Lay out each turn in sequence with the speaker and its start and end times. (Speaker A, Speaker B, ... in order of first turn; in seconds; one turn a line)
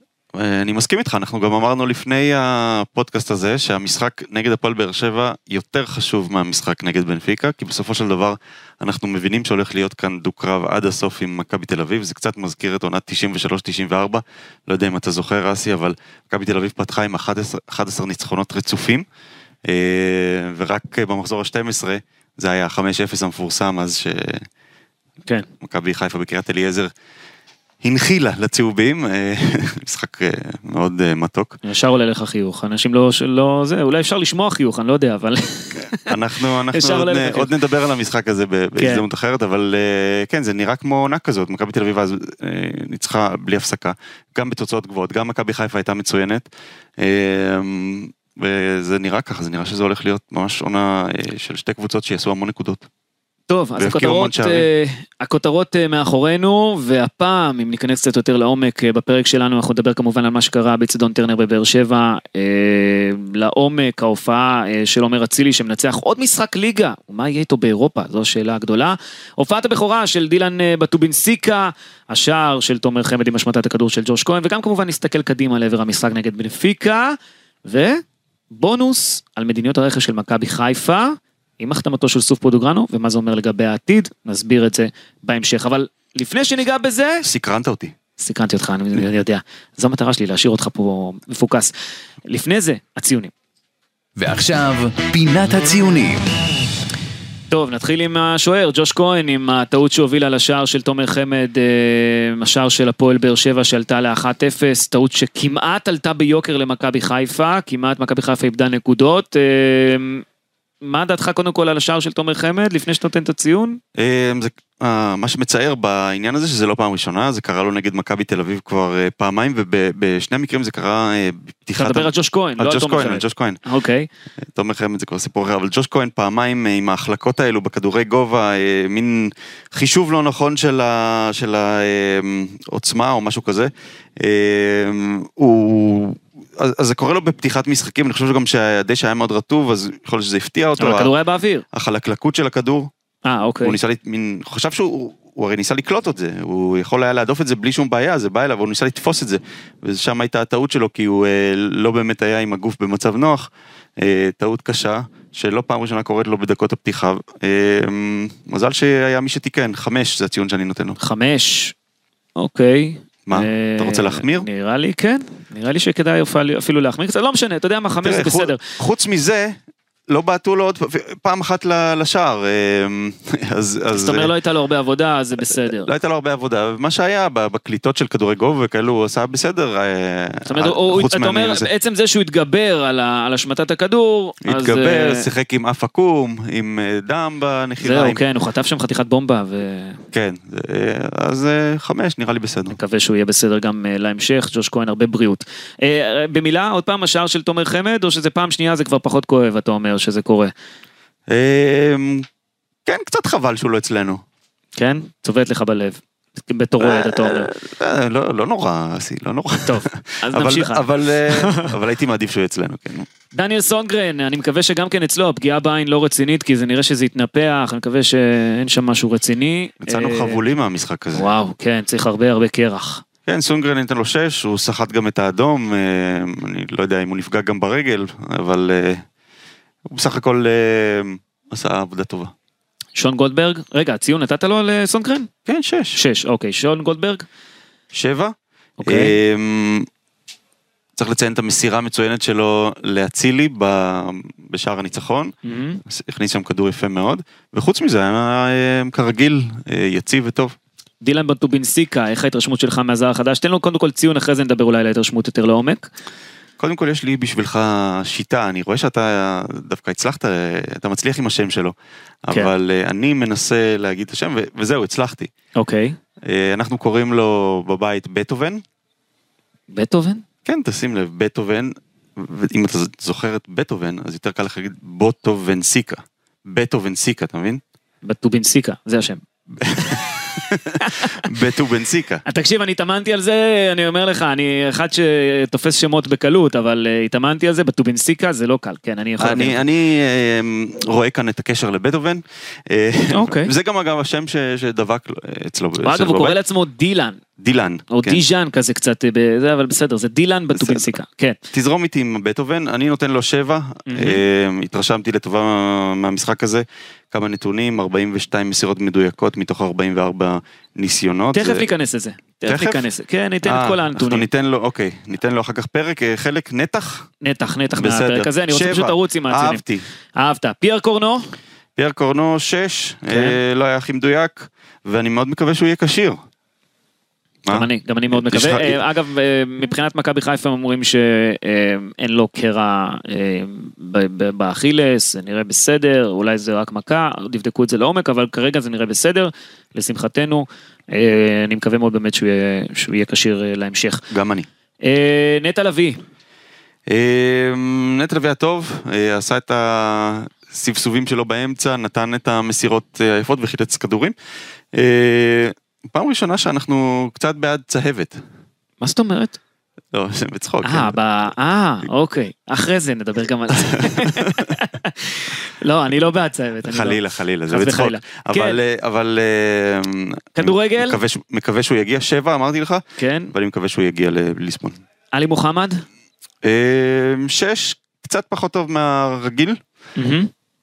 Speaker A: 0.3-19.0
Speaker A: 19.7-24.5
Speaker A: 25.6-26.9
Speaker A: 27.8-31.6
Speaker B: 31.6-36.1
Speaker A: 36.0-52.9
Speaker B: 36.7-37.5
Speaker B: 38.8-39.0
Speaker B: 53.5-87.3
Speaker A: 53.8-54.7
Speaker A: 87.2-87.9
Speaker B: 88.2-91.7
Speaker B: 92.3-93.3
Speaker C: 94.2-96.3
Speaker B: 97.5-110.2
Speaker B: 110.8-113.8
Speaker A: 113.9-123.6
Speaker B: 121.8-124.1
Speaker A: 124.4-141.1
Speaker B: 140.8-141.6
Speaker A: 141.7-142.9
Speaker B: 143.2-143.8
Speaker A: 143.6-161.0
Speaker B: 161.0-161.7
Speaker B: 162.3-168.6
Speaker A: 163.3-164.5
Speaker A: 168.0-169.6
Speaker A: 170.1-174.3
Speaker B: 173.9-175.9
Speaker A: 175.4-181.7
Speaker B: 180.4-185.2
Speaker A: 184.4-188.2
Speaker B: 187.8-190.0
Speaker A: 190.1-192.8
Speaker B: 192.7-200.5
Speaker A: 201.3-202.3
Speaker A: 202.8-204.2
Speaker B: 204.8-207.5
Speaker A: 206.8-213.1
Speaker B: 209.7-211.7
Speaker B: 213.3-220.4
Speaker A: 219.8-221.3
Speaker B: 221.1-223.0
Speaker A: 223.2-229.0
Speaker A: 229.8-232.3
Speaker B: 232.9-235.3
Speaker A: 235.4-236.0
Speaker B: 235.9-237.2
Speaker A: 237.9-239.9
Speaker B: 238.8-239.1
Speaker A: 240.9-245.3
Speaker B: 245.4-245.8
Speaker A: 245.8-250.5
Speaker B: 251.0-255.9
Speaker A: 256.6-261.7
Speaker A: 262.2-265.3
Speaker B: 265.6-266.0
Speaker A: 266.2-268.6
Speaker B: 269.7-270.2
Speaker A: 270.4-277.6
Speaker B: 278.0-279.2
Speaker A: 279.6-282.2
Speaker B: 279.8-281.2
Speaker B: 282.2-289.6
Speaker A: 289.2-296.4
Speaker B: 293.1-293.5
Speaker B: 295.8-297.2
Speaker A: 297.4-298.2
Speaker B: 297.9-301.4
Speaker A: 300.5-300.9
Speaker A: 301.5-311.6
Speaker B: 303.9-304.2
Speaker B: 311.3-314.3
Speaker A: 312.4-312.9
Speaker A: 313.4-317.1
Speaker B: 317.2-319.6
Speaker A: 317.7-319.9
Speaker B: 320.1-321.3
Speaker A: 321.8-326.2
Speaker B: 323.1-323.4
Speaker A: 327.4-328.8
Speaker B: 327.5-344.0
Speaker A: 344.1-344.5
Speaker B: 344.8-346.0
Speaker A: 346.9-354.1
Speaker A: 354.7-358.2
Speaker B: 358.8-359.4
Speaker A: 359.9-361.0
Speaker B: 360.6-368.6
Speaker A: 363.7-364.5
Speaker A: 366.6-374.7
Speaker B: 370.4-371.0
Speaker B: 373.0-373.3
Speaker B: 375.1-375.8
Speaker A: 376.4-379.6
Speaker B: 379.9-380.3